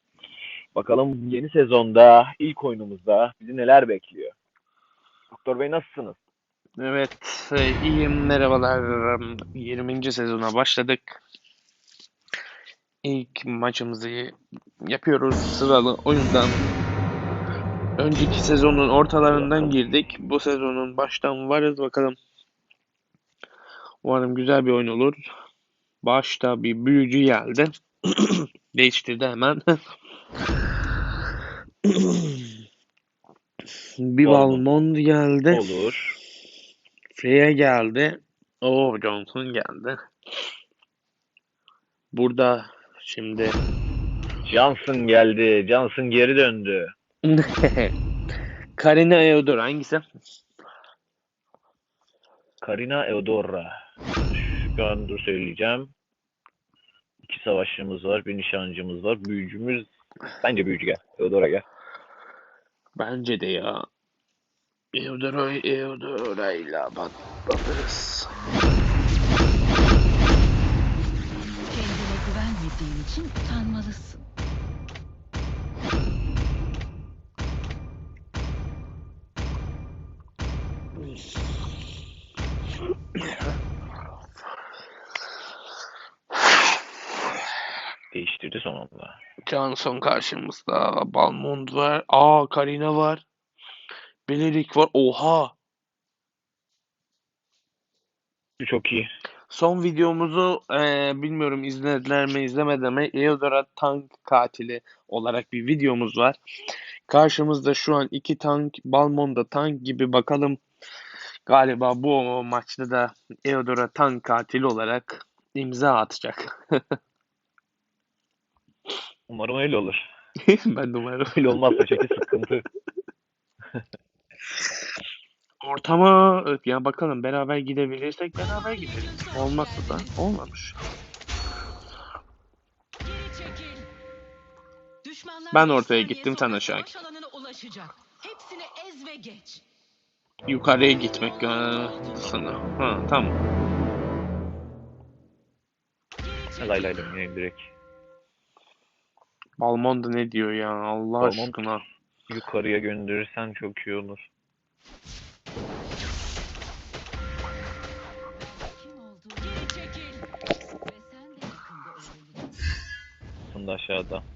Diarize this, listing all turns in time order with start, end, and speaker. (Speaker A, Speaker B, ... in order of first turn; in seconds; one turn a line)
Speaker A: 0.7-4.3
Speaker A: 5.3-6.2
Speaker B: 6.8-11.2
Speaker B: 13.0-16.6
Speaker B: 18.0-22.2
Speaker B: 24.0-25.2
Speaker B: 26.0-29.8
Speaker B: 31.8-32.5
Speaker B: 34.0-35.7
Speaker A: 34.2-34.6
Speaker A: 35.5-36.1
Speaker B: 37.1-40.0
Speaker B: 42.1-43.6
Speaker A: 44.5-46.9
Speaker B: 47.2-47.9
Speaker B: 48.8-50.0
Speaker A: 52.6-53.7
Speaker A: 54.3-55.9
Speaker A: 57.2-59.9
Speaker A: 60.4-61.6
Speaker B: 63.0-63.9
Speaker B: 64.9-68.3
Speaker C: 71.7-74.2
Speaker A: 88.1-89.2
Speaker B: 89.5-93.2
Speaker B: 94.3-95.5
Speaker A: 98.6-99.1
Speaker B: 99.5-106.4
Speaker B: 107.1-110.6
Speaker B: 111.5-117.0
Speaker A: 119.3-120.0
Speaker B: 120.4-122.2
Speaker A: 121.3-122.6
Speaker B: 125.6-130.8
Speaker B: 135.5-136.9
Speaker C: 136.0-136.9
Speaker C: 137.5-138.0
Speaker C: 138.5-139.6
Speaker B: 140.5-143.4
Speaker A: 146.6-147.6
Speaker B: 149.6-151.8
Speaker A: 151.2-151.6
Speaker A: 152.3-154.3
Speaker C: 158.3-160.2
Speaker C: 160.8-162.7
Speaker A: 163.5-164.2